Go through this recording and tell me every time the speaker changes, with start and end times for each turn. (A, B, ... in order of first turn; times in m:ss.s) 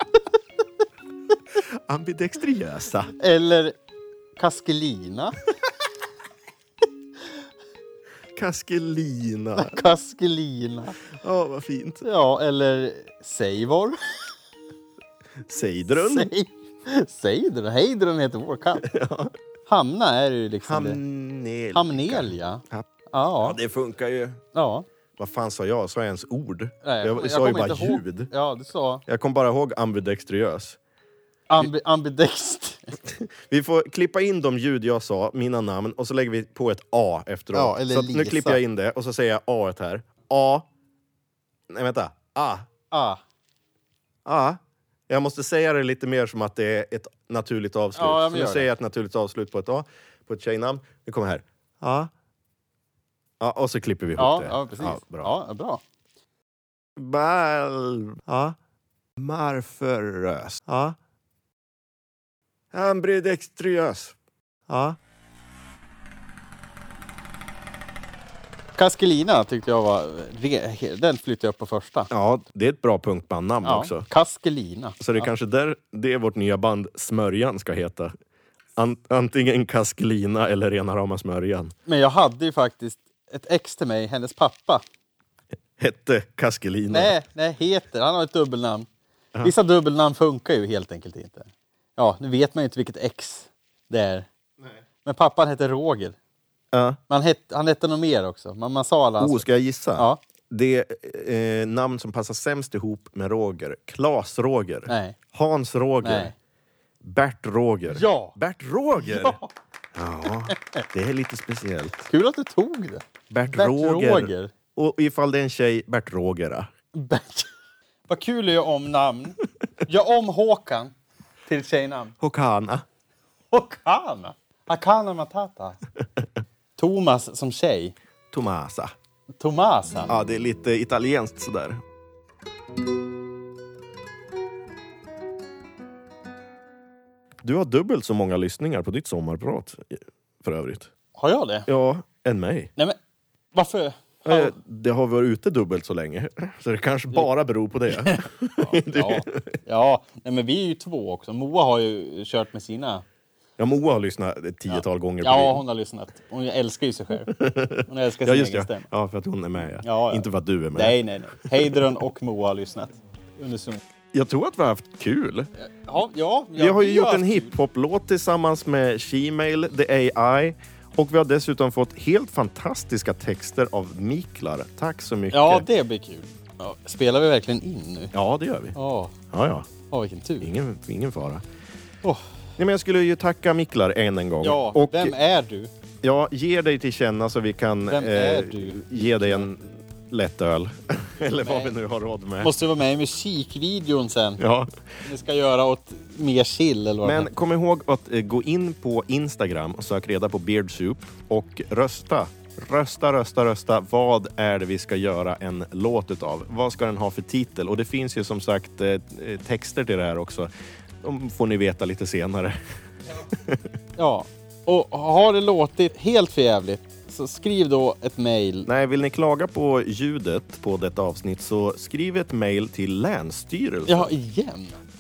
0:01.5-0:03.1 A
0:03.2-0:03.8 B
0:04.4-0:05.4 B
0:08.3-0:09.8 A
0:09.6-0:11.0 B
0:11.1-0:12.0 A
0:12.0-0:14.0 B
0:15.4-0:16.3 A
0:15.9-0:18.9 B
0:18.8-0:19.3 A
0:19.6-0:21.0 B
0:20.6-0:22.9 A
0:21.7-0:23.6 B
0:23.4-0:24.4 A
0:24.5-0:24.8 B
0:25.2-0:28.3 A
0:26.8-0:29.0 B
0:29.1-0:30.8 A
0:31.5-0:33.0 B
0:33.0-0:40.7 A
0:37.5-0:38.6 B
0:41.7-0:42.7 A
0:42.9-0:43.2 B
0:44.2-0:52.1 A
0:48.0-0:48.7 B
0:53.4-0:55.3 A
0:54.2-0:55.8 B
0:57.0-0:58.6 A
0:59.2-1:01.0 A
1:02.7-1:04.2 A
1:04.7-1:05.0 A
1:08.8-1:12.1 B
1:12.1-1:14.0 A
1:13.6-1:15.3 B
1:15.0-1:18.1 A
1:18.8-1:21.7 A
1:21.9-1:24.8 B
1:25.8-1:27.2 A
1:26.9-1:28.9 B
1:29.4-1:34.3 B
1:35.0-1:36.2 B
1:36.7-1:37.0 A
1:37.1-1:40.2 B
1:39.2-1:46.3 A
1:44.9-1:45.2 B
1:46.0-1:46.3 B
1:47.0-1:49.4 A
1:47.9-1:48.4 B
1:49.0-1:49.5 B
1:49.9-1:52.1 A
1:52.1-1:54.5 B
1:53.3-1:56.7 A
1:56.9-1:57.5 B
1:58.1-2:00.9 B
2:01.5-2:02.1 B
2:02.2-2:02.8 A
2:03.5-2:05.8 B
2:06.8-2:08.0 B
2:08.3-2:08.9 A
2:09.4-2:10.1 B
2:10.1-2:11.8 A
2:17.4-2:20.9 A
2:21.2-2:21.7 B
2:21.7-2:22.7 A
2:23.5-2:24.5 B
2:24.2-2:29.5 A
2:27.9-2:33.0 B
2:33.6-2:35.6 A
2:34.7-2:38.9 B
2:37.3-2:41.0 A
2:39.8-2:43.8 B
2:44.1-2:45.5 A
2:45.6-2:47.6 B
2:46.6-2:55.7 A
2:55.3-2:58.1 B
2:58.1-2:58.8 A
2:58.7-2:59.1 B
2:59.3-2:59.7 A
2:59.9-3:00.5 B
3:00.4-3:01.4 A
3:02.6-3:05.1 A
3:04.4-3:05.7 B
3:06.0-3:12.5 A
3:07.9-3:09.5 B
3:11.4-3:11.7 B
3:12.4-3:14.4 B
3:14.4-3:14.7 A
3:15.0-3:17.3 B
3:17.0-3:30.5 A
3:31.0-3:32.6 A
3:33.2-3:33.7 A
3:34.0-3:38.7 B
3:38.6-3:44.1 A
3:43.8-3:44.8 B